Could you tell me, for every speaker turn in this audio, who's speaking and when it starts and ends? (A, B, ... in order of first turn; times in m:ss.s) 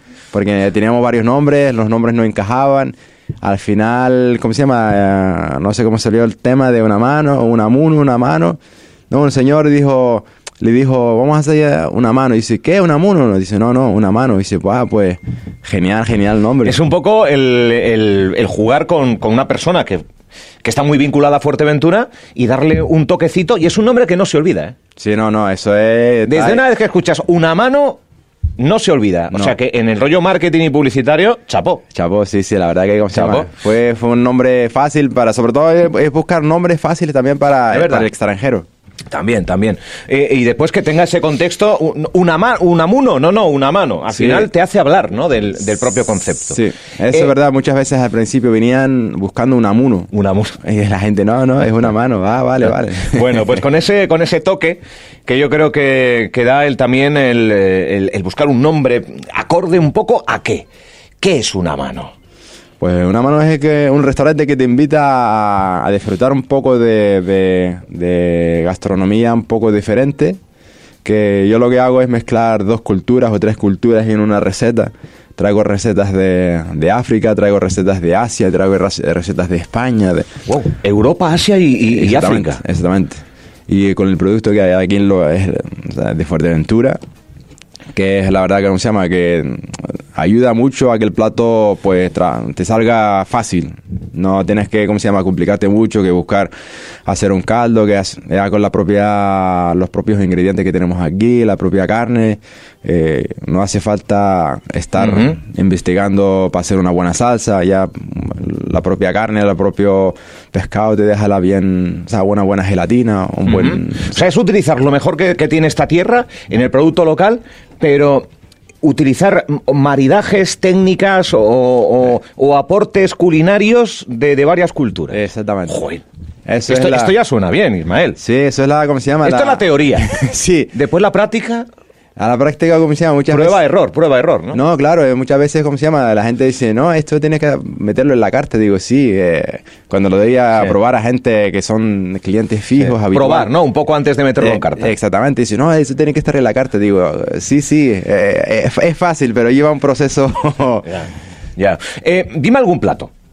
0:00.3-0:08.6 A
0:09.1-0:16.8 A
0:16.6-0:20.0 B
0:20.6-0:24.8 B
0:25.0-0:26.6 A
0:26.2-0:28.0 B
0:28.6-0:31.8 B
0:31.9-0:38.7 A
0:33.1-0:33.5 B
0:37.7-0:38.1 B
0:39.1-0:47.3 B
0:44.1-0:44.5 A
0:46.5-0:53.5 A
0:50.1-0:50.6 B
0:53.1-1:00.7 B
1:01.2-1:02.1 B
1:02.8-1:10.4 A
1:11.0-1:20.3 A
1:20.5-1:22.6 B
1:21.9-1:27.0 A
1:27.9-1:36.5 A
1:37.1-1:54.1 A
1:45.0-1:45.4 B
1:53.4-1:58.3 B
1:58.8-2:06.0 B
2:05.1-2:05.8 A
2:06.4-2:07.1 A
2:06.7-2:08.2 B
2:08.2-2:10.7 A
2:09.2-2:10.1 B
2:10.7-2:11.7 B
2:12.2-2:13.6 A
2:13.3-2:14.6 B
2:14.5-2:23.5 A
2:22.8-2:24.9 B
2:24.4-2:31.0 A
2:30.9-2:33.1 B